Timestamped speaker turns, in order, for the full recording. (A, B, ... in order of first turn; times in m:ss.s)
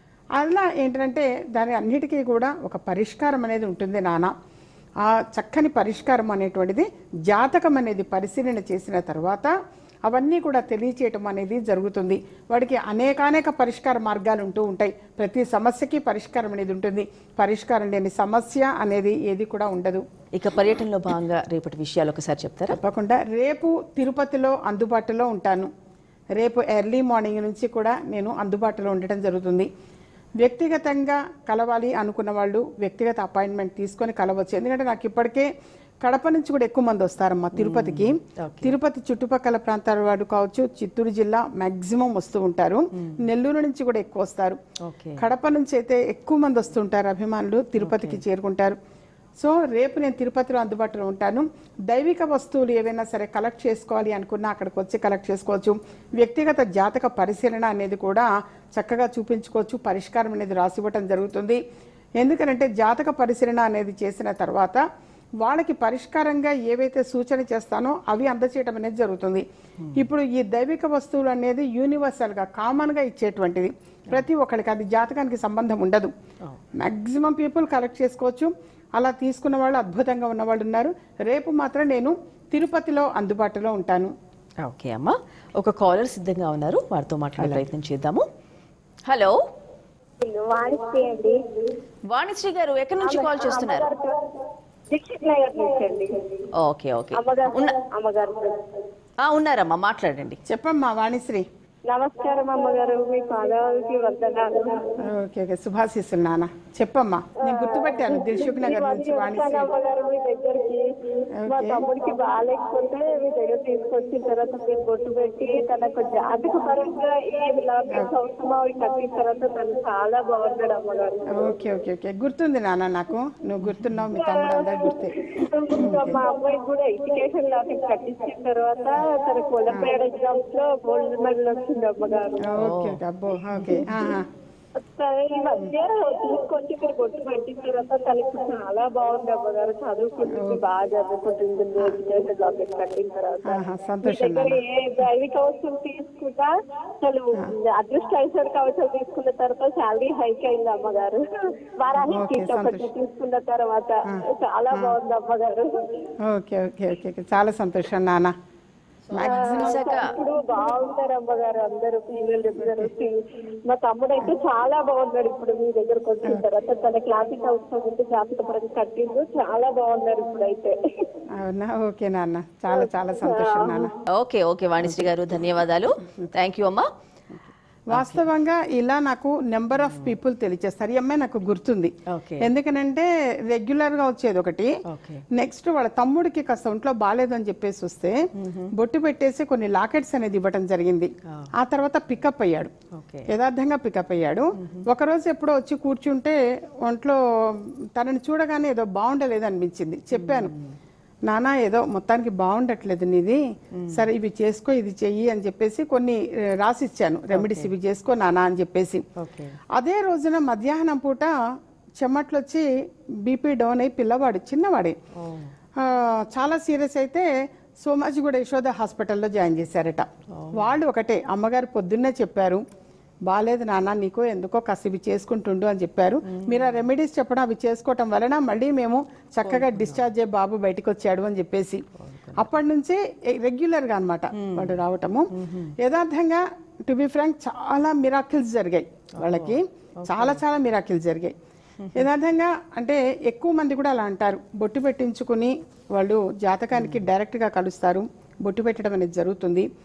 0:00.3-0:04.3 A
0:05.0-0:09.5 A
0:10.1-0:20.0 A
0:20.3-0:22.8 B
0:22.7-0:25.7 A
0:26.4-0:29.7 A
0:30.4-0:35.5 A
0:36.0-0:44.6 A
0:37.5-0:38.7 B
0:43.0-0:43.2 B
0:44.8-0:45.2 B
0:45.2-0:48.8 A
0:47.8-0:48.2 B
0:49.4-1:01.6 A
1:02.2-1:04.8 A
1:05.4-1:16.1 A
1:09.8-1:10.1 B
1:16.8-1:24.1 A
1:24.6-1:28.3 B
1:29.1-1:29.4 B
1:30.2-1:31.4 C
1:32.1-1:33.9 B
1:33.0-1:34.4 C
1:34.9-1:36.4 C
1:36.5-1:37.8 B
1:37.1-1:38.7 C
1:39.2-1:40.4 B
1:40.4-1:41.4 A
1:41.9-1:45.0 C
1:45.0-1:49.7 A
1:47.4-1:50.9 C
1:51.3-1:51.8 A
1:51.5-2:01.5 C
2:01.3-2:06.2 A
2:03.6-2:04.1 B
2:04.2-2:12.5 C
2:09.7-2:09.9 A
2:12.4-2:14.3 A
2:12.6-2:13.0 B
2:13.6-2:13.9 B
2:14.8-2:36.0 C
2:20.3-2:20.6 A
2:23.4-2:24.6 A
2:31.9-2:32.9 A
2:34.1-2:34.9 A
2:36.2-2:38.3 A
2:39.1-2:39.8 A
2:39.2-2:40.2 B
2:39.2-2:51.1 C
2:42.6-2:42.9 A
2:51.3-2:53.9 A
2:52.7-2:53.9 C
2:54.1-2:56.9 B
2:57.9-3:04.7 A
2:57.9-2:58.2 B
3:02.1-3:02.5 B
3:04.9-3:05.2 B
3:05.3-3:12.7 A
3:08.3-3:08.7 B
3:12.9-3:13.3 B
3:13.3-3:20.5 A
3:14.6-3:14.9 B
3:20.1-3:20.8 B
3:21.3-3:29.0 A
3:23.7-3:24.0 B
3:27.3-3:27.7 B
3:29.2-3:29.6 B
3:29.7-3:31.3 A
3:32.0-3:32.7 A
3:33.2-3:35.0 A
3:35.1-3:35.5 B
3:35.8-3:37.3 A
3:37.8-3:42.6 A
3:40.3-3:40.7 B
3:43.3-3:51.8 A
3:46.3-3:46.7 B
3:49.4-3:50.1 B
3:52.0-3:52.5 B
3:52.4-4:01.3 A
3:54.3-3:54.8 B
3:55.3-3:55.7 B
3:59.2-4:00.4 B
4:01.8-4:02.1 B
4:01.9-4:09.7 A
4:06.7-4:07.0 B